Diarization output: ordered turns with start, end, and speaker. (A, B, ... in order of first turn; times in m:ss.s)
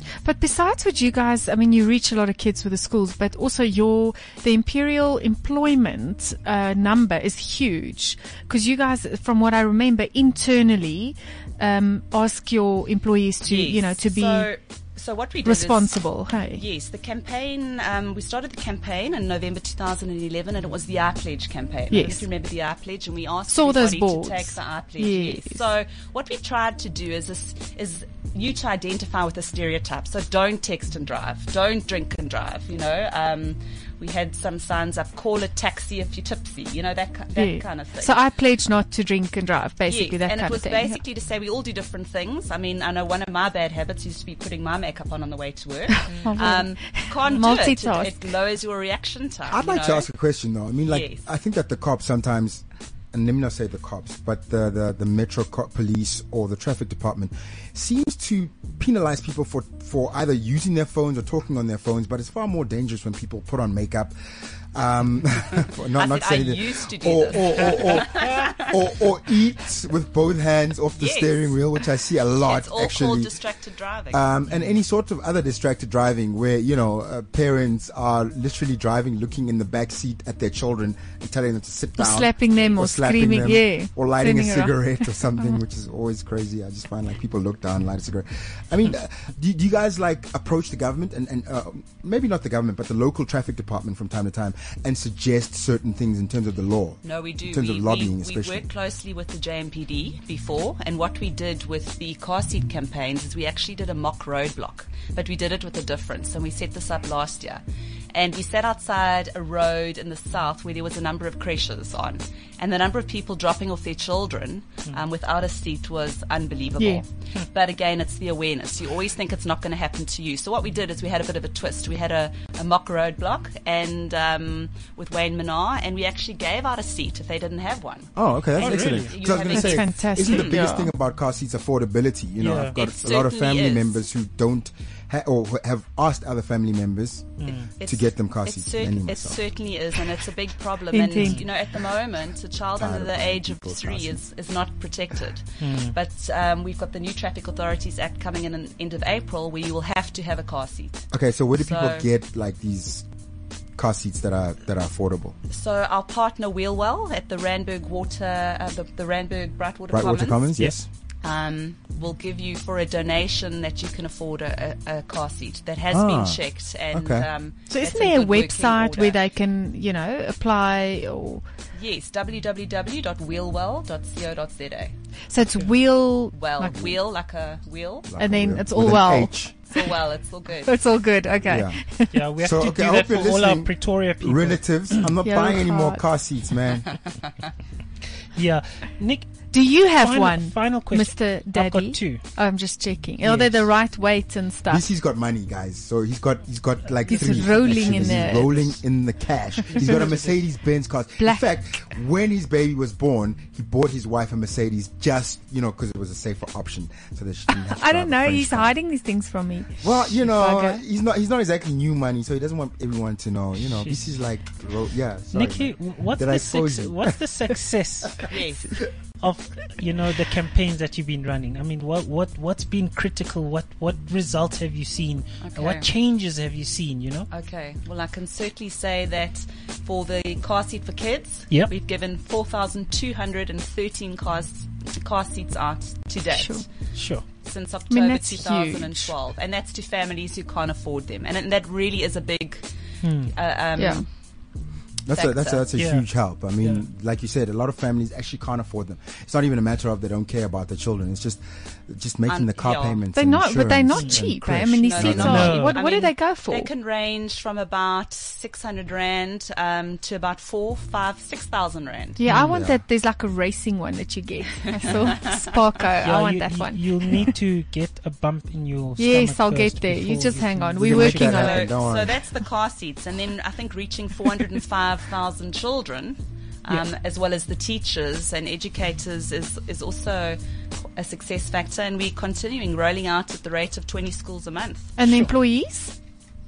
0:00.2-0:14.5 A
0:13.4-0:38.2 B
0:15.4-0:16.6 A
0:21.9-0:22.3 A
0:23.5-0:25.6 A
0:37.4-0:41.0 A
0:39.9-0:50.1 B
0:46.2-0:48.2 A
0:49.5-1:04.1 C
0:50.8-0:51.3 B
1:04.7-1:13.4 C
1:05.9-1:08.8 B
1:11.0-1:11.6 B
1:12.4-1:14.3 B
1:14.1-1:38.7 C
1:22.0-1:25.6 A
1:37.0-2:10.7 B
2:08.2-2:19.4 C
2:08.6-2:09.1 D
2:09.5-2:10.9 A
2:12.4-2:12.8 D
2:12.7-2:14.0 B
2:17.4-2:17.7 D
2:17.8-2:32.1 B
2:20.9-2:21.4 A
2:21.2-2:21.4 D
2:22.8-2:24.2 C
2:25.6-2:26.0 D
2:31.1-2:33.0 C
2:33.8-2:35.4 C
2:35.5-2:40.7 B
2:39.9-2:40.9 C
2:41.2-2:49.2 B
2:45.9-2:46.4 C
2:46.9-2:47.3 C
2:47.7-2:51.4 A
2:51.8-2:54.9 B
2:55.3-2:56.9 A
2:56.3-2:58.1 B
2:58.1-2:59.5 C
2:58.2-2:59.3 A
2:59.7-3:00.8 B
3:00.6-3:02.2 A
3:01.4-3:01.8 C
3:02.1-3:05.1 D
3:02.4-3:06.9 C
3:05.2-3:06.0 A
3:08.4-3:09.3 D
3:09.5-3:14.8 A
3:10.0-3:12.2 D
3:13.2-3:13.7 D
3:14.7-3:28.7 C
3:17.1-3:18.5 A
3:17.1-3:18.7 D
3:19.7-3:20.4 D
3:27.5-3:30.8 A
3:29.8-3:37.2 C
3:33.7-3:34.0 D
3:35.3-3:38.3 D
3:38.3-3:38.8 B
3:39.2-3:47.3 D
3:45.4-3:45.9 B
3:47.3-3:56.7 B
3:56.3-3:56.6 A
3:57.0-3:57.2 D
3:57.4-4:02.7 B
3:57.9-3:59.1 A
4:03.0-4:03.3 D
4:03.2-4:04.1 B
4:03.8-4:04.0 A
4:05.1-4:15.7 C
4:05.1-4:05.7 B
4:05.8-4:06.1 D
4:12.3-4:13.0 B
4:13.2-4:16.7 A
4:14.7-4:22.2 B
4:15.2-4:15.8 D
4:22.2-4:27.2 A
4:22.2-4:22.6 D
4:22.3-4:22.8 C
4:24.7-4:25.6 B
4:26.0-4:30.9 D
4:29.0-4:31.7 A
4:30.8-4:32.2 C
4:30.9-4:40.4 B
4:41.0-4:45.2 B
4:45.0-4:46.0 A